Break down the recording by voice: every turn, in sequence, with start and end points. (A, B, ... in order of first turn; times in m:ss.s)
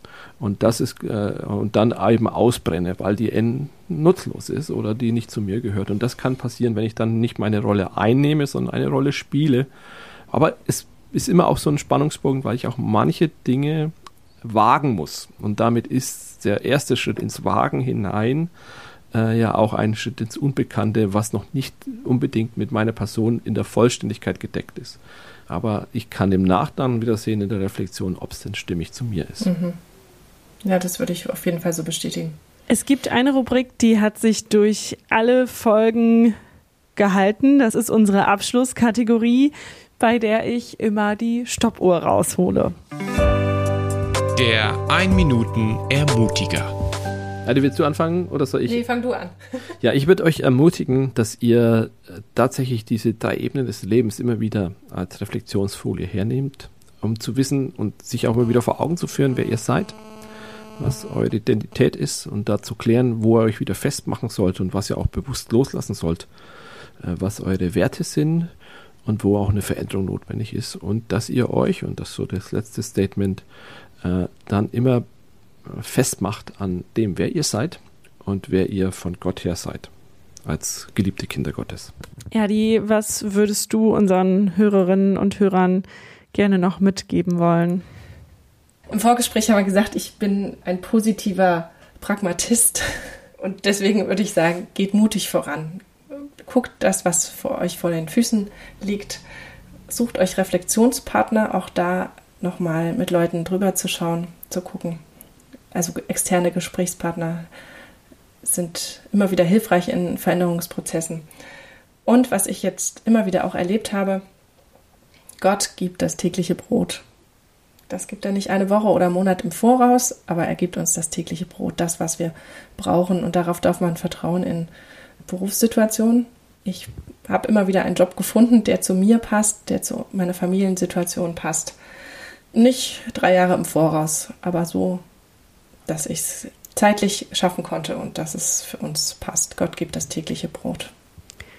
0:00.4-0:09.7 A
0:10.3-0:18.5 A
0:19.1-0:25.0 A
0:25.5-0:29.5 A
0:29.4-0:29.8 B
0:30.6-0:32.4 B
0:32.7-0:36.4 C
0:37.0-0:42.8 C
0:44.4-0:46.7 D
0:47.4-0:48.8 A
0:48.7-0:49.3 B
0:49.8-1:00.0 A
1:00.8-1:06.3 A
1:07.0-1:08.5 A
1:09.0-1:13.4 A
1:14.0-1:15.0 A
1:15.7-1:19.9 A
1:20.4-1:21.9 A
1:22.3-1:27.8 C
1:28.9-1:39.2 B
1:39.9-1:45.0 B
1:45.7-1:47.5 B
1:48.4-1:51.3 B
1:52.1-1:54.2 B
1:55.4-1:57.0 B
1:57.9-2:04.7 B
2:05.2-2:11.8 B
2:12.5-2:15.0 B
2:15.9-2:20.9 B